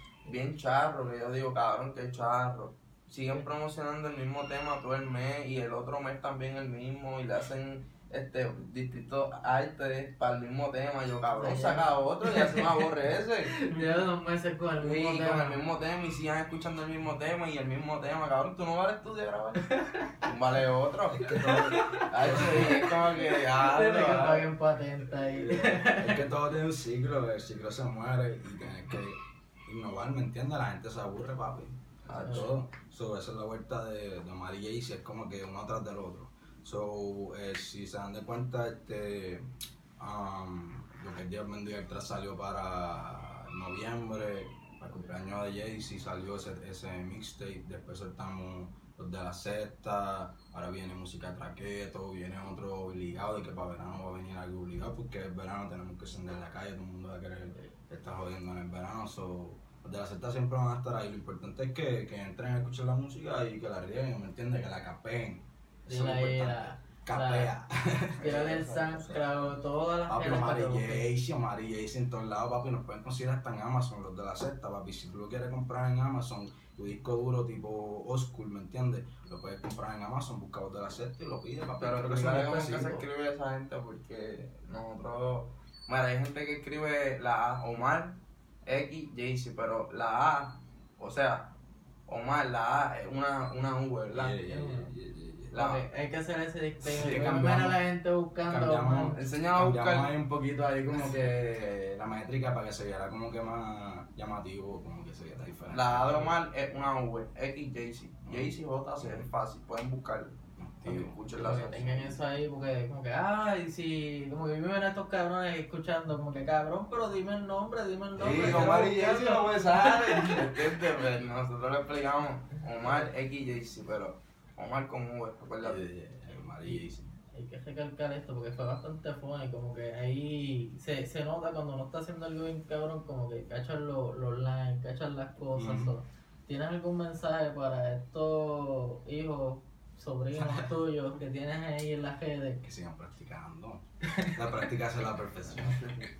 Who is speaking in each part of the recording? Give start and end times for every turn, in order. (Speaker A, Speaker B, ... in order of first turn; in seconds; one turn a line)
Speaker A: 0.2-13.6
Speaker B: 11.3-12.7
Speaker B: 13.5-15.6
Speaker A: 14.8-21.4
Speaker C: 21.1-22.8
Speaker B: 21.8-26.2
Speaker A: 22.0-24.5
Speaker C: 25.1-68.3
Speaker A: 32.1-32.6
Speaker B: 32.1-32.5
Speaker B: 65.9-67.5
Speaker B: 68.2-71.0
Speaker A: 68.2-69.2
Speaker C: 70.1-83.0
Speaker A: 81.8-91.5
Speaker B: 82.3-82.8
Speaker A: 92.1-94.4
Speaker C: 94.1-95.6
Speaker B: 94.4-94.9
Speaker A: 95.5-95.9
Speaker B: 95.5-99.1
Speaker C: 96.8-97.8
Speaker C: 98.5-106.3
Speaker A: 99.1-100.1
Speaker A: 100.9-101.5
Speaker A: 105.7-112.2
Speaker C: 108.2-109.3
Speaker C: 110.6-111.2
Speaker B: 111.4-120.4
Speaker C: 118.2-120.4
Speaker A: 118.2-125.8
Speaker C: 125.6-127.1
Speaker B: 127.3-142.6
Speaker C: 135.5-135.9
Speaker C: 140.4-140.7
Speaker C: 142.6-145.8